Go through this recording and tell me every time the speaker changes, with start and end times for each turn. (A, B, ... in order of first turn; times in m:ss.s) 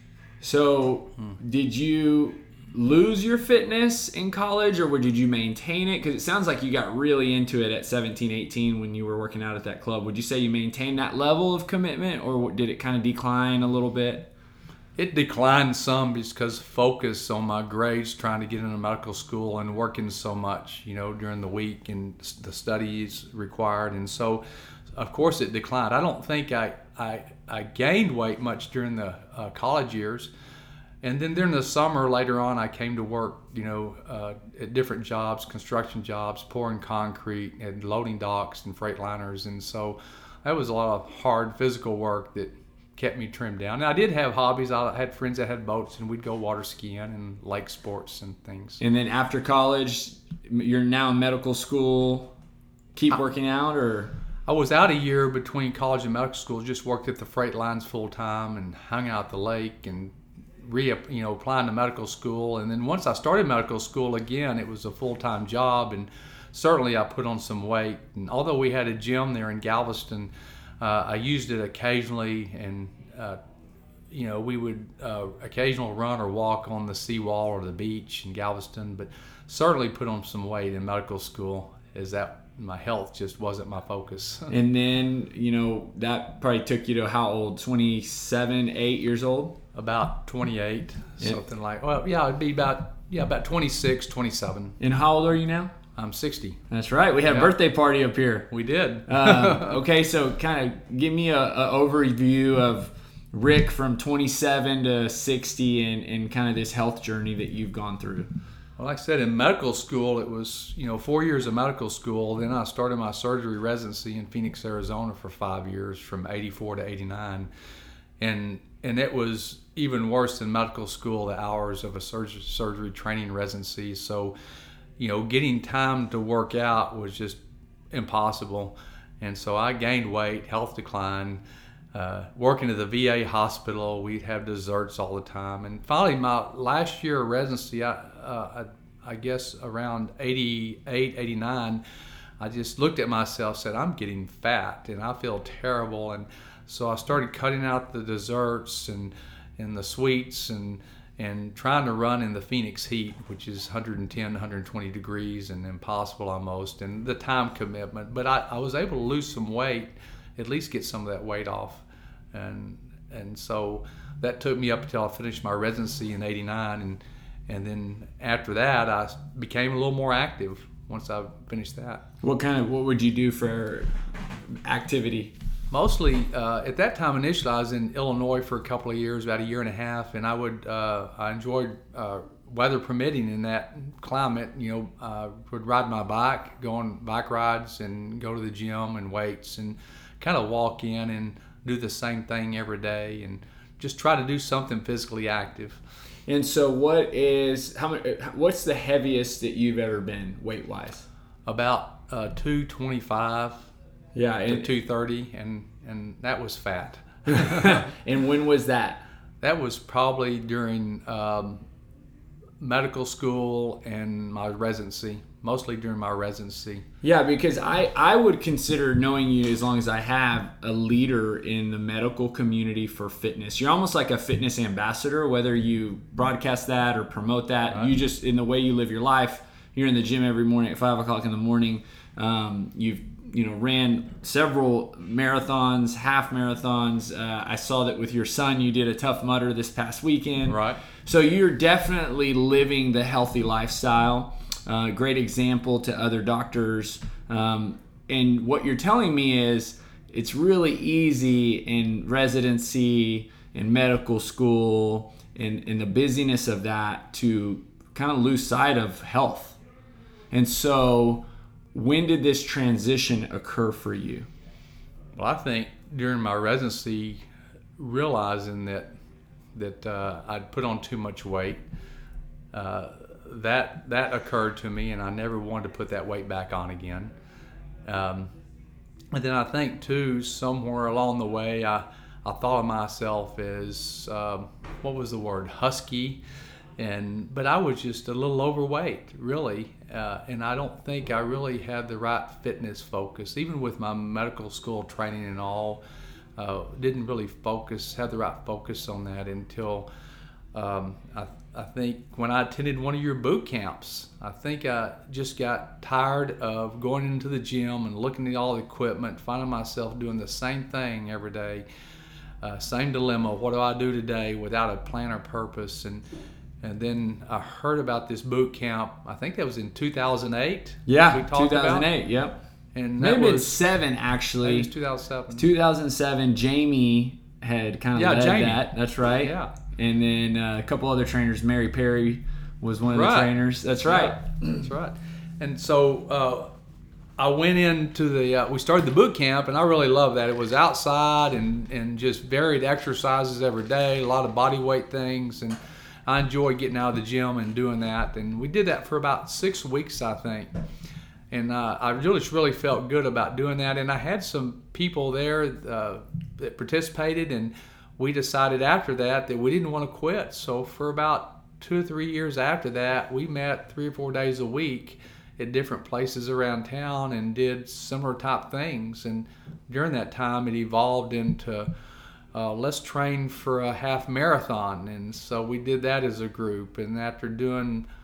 0:00.4-0:14.3 A
0:15.0-0:24.4 B
0:25.0-0:30.3 B
0:31.0-0:48.8 B
0:48.8-0:52.3 A
0:52.9-0:54.1 A
0:54.5-1:10.3 B
1:10.8-1:13.4 B
1:14.1-1:24.5 B
1:24.5-1:29.6 A
1:29.7-1:34.8 B
1:34.8-1:35.7 A
1:36.0-1:36.6 B
1:36.7-1:38.5 A
1:37.2-1:37.5 B
1:38.5-1:39.8 B
1:39.1-1:48.3 A
1:48.8-1:57.5 B
1:58.2-2:04.3 B
2:05.0-2:07.4 B
2:07.9-2:11.4 B
2:11.9-2:21.8 B
2:22.4-2:52.0 B
2:52.2-2:53.9 A
2:54.5-2:55.3 A
2:55.7-3:15.8 B
3:16.3-3:21.0 A
3:21.5-3:23.7 B
3:24.1-3:24.7 A
3:24.4-3:27.8 B
3:27.3-3:29.0 A
3:29.4-3:31.6 B
3:32.6-3:36.8 B
3:37.0-4:19.6 A
4:00.5-4:00.8 B
4:20.3-4:24.3 A
4:25.2-4:27.2 B
4:27.8-4:28.9 B
4:29.5-4:31.6 B
4:32.5-4:37.1 B
4:37.8-4:38.3 B
4:39.1-4:46.2 B
4:46.8-4:55.8 B
4:56.4-4:59.8 B
5:00.5-5:11.6 B
5:12.4-5:16.0 B
5:16.6-5:21.9 B
5:20.9-5:22.4 A
5:22.7-5:23.6 B
5:23.0-5:24.7 A
5:24.4-5:25.5 B
5:25.4-5:34.4 A
5:27.9-5:29.5 B
5:32.9-5:36.5 B
5:37.2-5:50.5 B
5:51.3-6:11.7 B
6:12.3-6:17.8 B